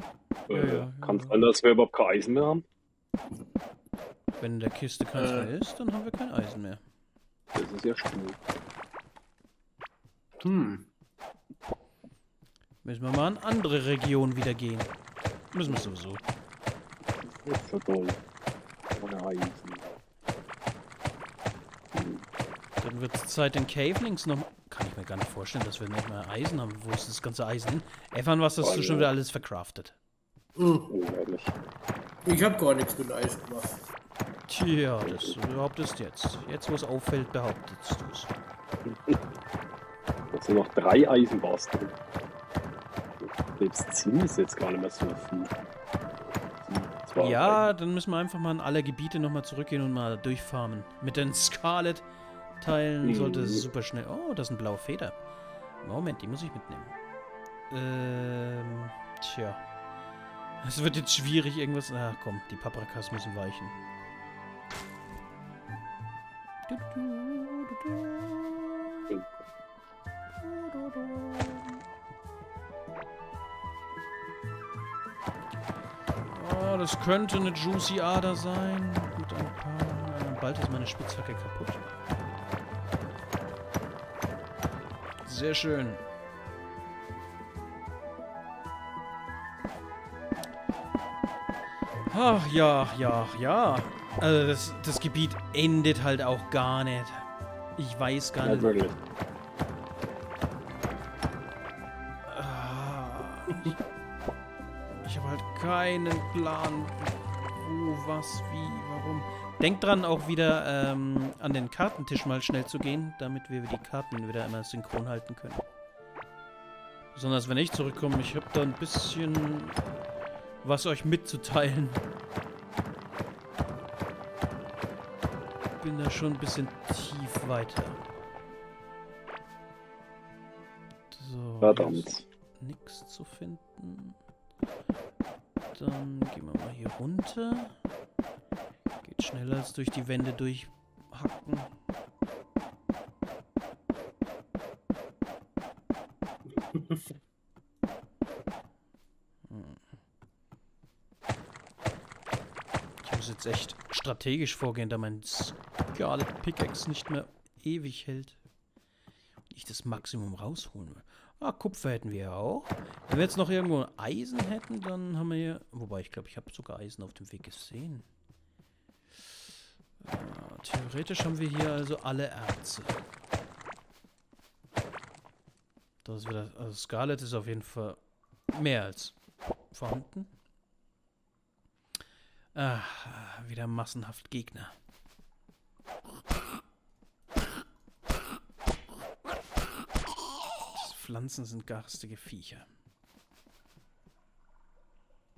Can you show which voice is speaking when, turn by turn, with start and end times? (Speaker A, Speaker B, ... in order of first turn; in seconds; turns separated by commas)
Speaker A: 0.5-2.6, Speaker B: 0.5-1.4, Speaker B: 4.4-6.8, Speaker C: 5.2-5.5, Speaker A: 7.5-8.4, Speaker C: 10.4-10.9, Speaker B: 12.8-14.9, Speaker B: 15.5-16.2, Speaker A: 17.2-18.2, Speaker A: 18.9-20.0, Speaker A: 21.9-22.2, Speaker B: 22.8-30.0, Speaker A: 28.6-29.1, Speaker C: 30.6-30.9, Speaker A: 30.9-31.5, Speaker C: 32.2-33.8, Speaker B: 34.5-38.3, Speaker A: 35.1-35.3, Speaker A: 38.9-39.2, Speaker A: 40.3-42.0, Speaker A: 43.2-45.5, Speaker A: 46.2-47.7, Speaker B: 47.2-52.1, Speaker B: 52.6-55.2, Speaker A: 53.0-53.7, Speaker B: 55.8-57.0, Speaker B: 57.7-59.6, Speaker B: 60.6-63.8, Speaker B: 66.7-69.1, Speaker B: 70.4-71.8, Speaker B: 76.3-81.8, Speaker B: 85.2-86.0, Speaker B: 92.1-98.8, Speaker A: 98.4-99.0, Speaker B: 102.3-103.8, Speaker B: 105.0-115.7, Speaker B: 117.2-119.8, Speaker B: 120.6-122.0, Speaker B: 125.8-128.0, Speaker B: 131.1-134.2, Speaker A: 131.6-132.2, Speaker B: 135.7-137.7, Speaker B: 139.0-141.7, Speaker C: 146.7-147.0, Speaker B: 149.5-149.8, Speaker B: 153.0-158.4, Speaker B: 159.5-168.1, Speaker B: 170.0-173.0, Speaker B: 176.0-179.2, Speaker B: 179.7-180.3, Speaker B: 182.6-184.7, Speaker B: 190.7-192.7